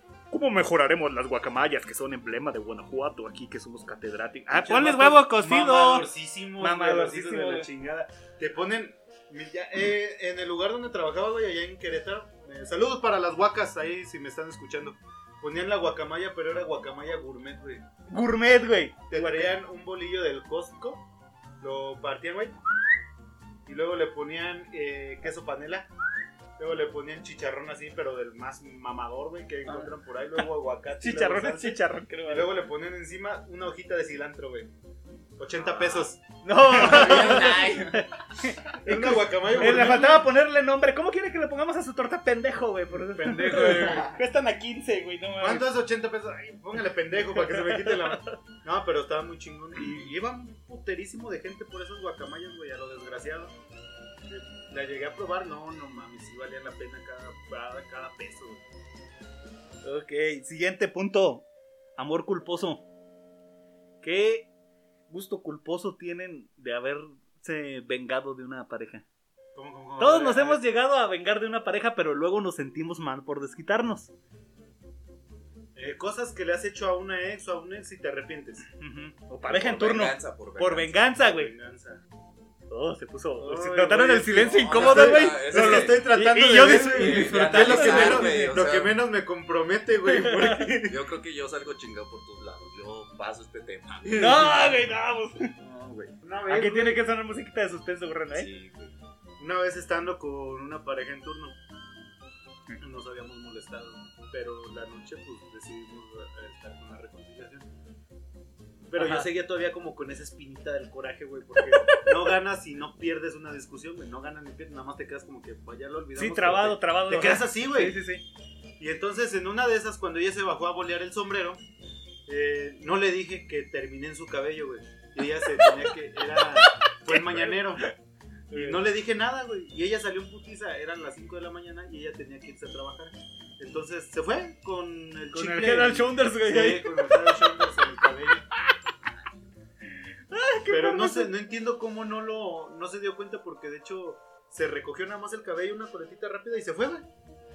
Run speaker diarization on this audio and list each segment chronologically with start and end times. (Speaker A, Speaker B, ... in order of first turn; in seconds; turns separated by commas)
Speaker A: 0.3-6.1, Speaker B: 4.5-17.8, Speaker A: 6.6-7.7, Speaker A: 18.1-19.6, Speaker B: 19.1-21.0, Speaker B: 21.6-22.6, Speaker B: 23.6-25.9, Speaker B: 26.6-34.7, Speaker A: 29.6-29.9, Speaker A: 31.0-32.5, Speaker B: 35.4-37.6, Speaker C: 35.5-36.1, Speaker A: 36.4-45.7, Speaker C: 36.7-38.2, Speaker B: 38.8-40.3, Speaker B: 43.1-44.1, Speaker B: 45.4-53.5, Speaker A: 47.3-48.4, Speaker B: 54.3-58.6, Speaker A: 59.8-61.4, Speaker A: 62.0-62.8, Speaker A: 64.0-64.5, Speaker A: 65.1-69.0, Speaker B: 69.5-70.6, Speaker A: 70.0-74.1, Speaker B: 75.8-78.7, Speaker A: 78.8-81.5, Speaker C: 79.4-81.0, Speaker B: 81.2-82.0, Speaker A: 82.7-88.6, Speaker B: 83.4-91.0, Speaker C: 84.4-86.1, Speaker C: 86.9-89.0, Speaker A: 90.0-90.6, Speaker C: 90.9-94.7, Speaker A: 94.1-95.5, Speaker C: 95.6-96.1, Speaker B: 96.2-97.0, Speaker A: 96.5-98.5, Speaker C: 98.3-98.9, Speaker B: 99.4-101.5, Speaker B: 102.8-107.7, Speaker B: 108.9-118.0, Speaker A: 109.0-109.3, Speaker A: 111.6-112.1, Speaker A: 116.2-118.2, Speaker B: 118.8-121.6, Speaker B: 122.3-127.9, Speaker A: 125.5-127.9, Speaker A: 128.5-128.8, Speaker B: 128.5-138.4, Speaker A: 135.3-137.8, Speaker A: 140.3-141.3, Speaker B: 140.7-147.1